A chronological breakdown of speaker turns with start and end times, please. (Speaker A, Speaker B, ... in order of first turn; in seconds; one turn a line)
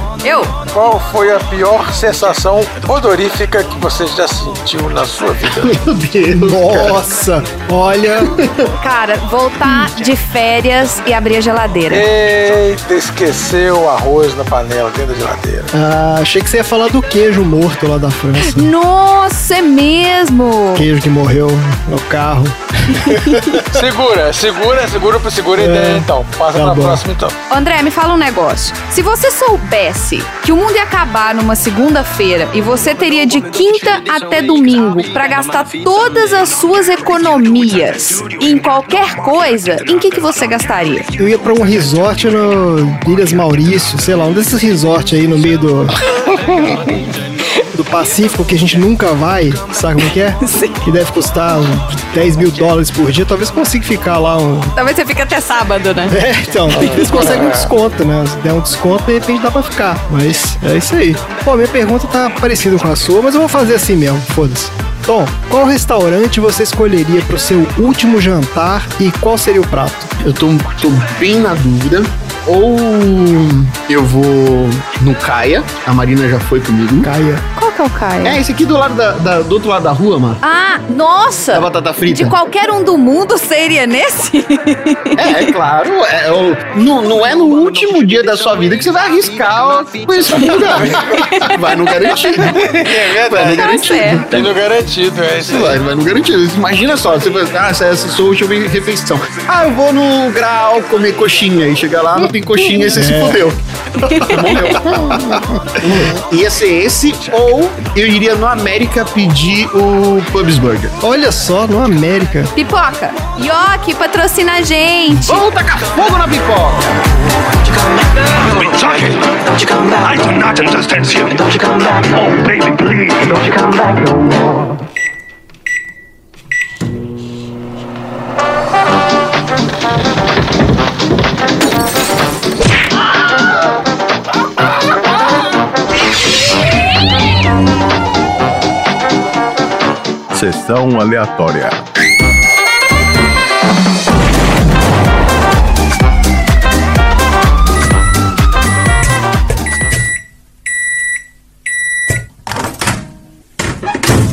Speaker A: 0.2-0.6
Speaker B: 0.7-5.8
Speaker C: 5.5-7.0
Speaker D: 6.3-8.4
Speaker C: 8.2-8.7
Speaker A: 8.8-12.0
Speaker B: 11.9-15.7
Speaker D: 15.7-18.7
Speaker A: 18.4-20.9
Speaker D: 20.7-23.8
Speaker B: 23.6-27.4
Speaker D: 25.6-27.0
Speaker A: 27.5-41.1
Speaker D: 41.2-46.0
Speaker B: 46.2-47.0
Speaker D: 47.7-54.7
Speaker A: 50.4-50.8
Speaker A: 54.7-56.2
Speaker D: 56.1-70.1
Speaker B: 56.7-57.7
Speaker A: 56.7-57.4
Speaker C: 70.2-77.1
Speaker D: 77.0-77.5
Speaker A: 77.5-78.4
Speaker C: 78.2-80.4
Speaker A: 80.4-85.5
Speaker C: 81.5-82.4
Speaker C: 85.1-94.5
Speaker B: 90.3-91.3
Speaker A: 90.4-91.6
Speaker B: 92.1-93.7
Speaker A: 93.5-94.3
Speaker B: 94.3-95.8
Speaker C: 95.5-103.6
Speaker D: 102.8-103.5
Speaker A: 104.0-104.4
Speaker D: 104.0-105.5
Speaker C: 104.2-110.9
Speaker D: 111.0-112.5
Speaker A: 112.5-115.4
Speaker C: 115.2-117.0
Speaker B: 118.5-119.4
Speaker E: 118.6-119.0
Speaker E: 120.0-123.8
Speaker B: 120.2-120.7
Speaker E: 140.3-141.8